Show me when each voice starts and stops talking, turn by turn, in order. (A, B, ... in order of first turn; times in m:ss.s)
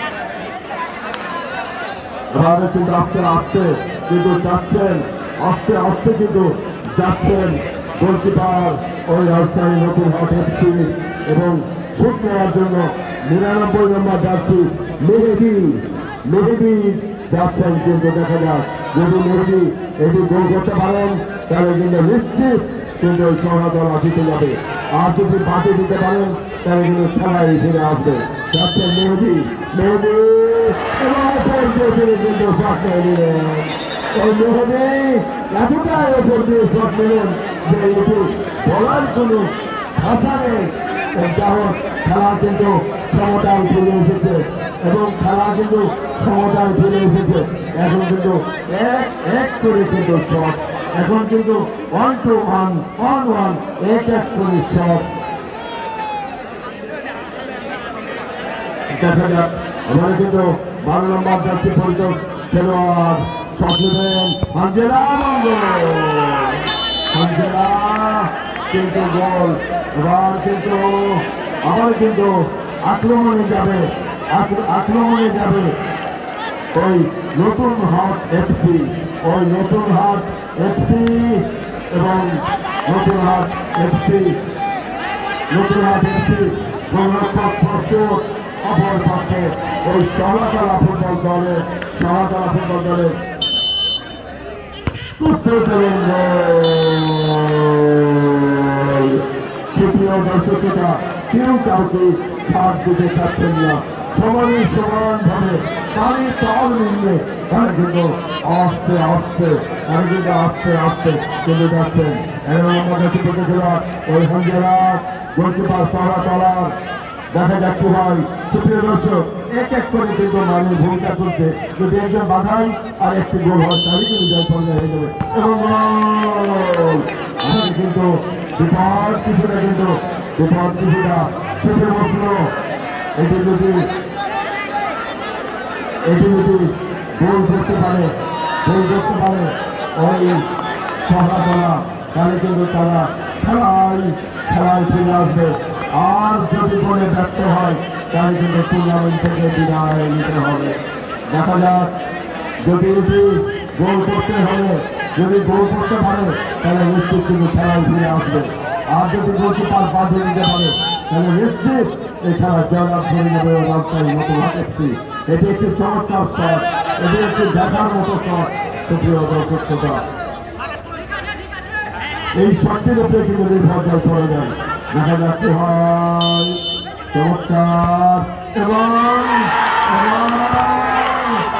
0:02.3-0:55.1 A
0:58.9-1:15.8 A
1:16.7-1:24.4 A
1:25.5-1:33.2 A
1:35.2-1:56.8 A
1:57.3-2:12.5 A
2:13.2-2:13.9 A
2:16.0-2:20.4 A
2:21.0-2:30.8 A
2:31.3-2:31.9 A
2:32.6-2:50.0 A
2:52.3-2:56.6 A
2:57.1-3:01.4 A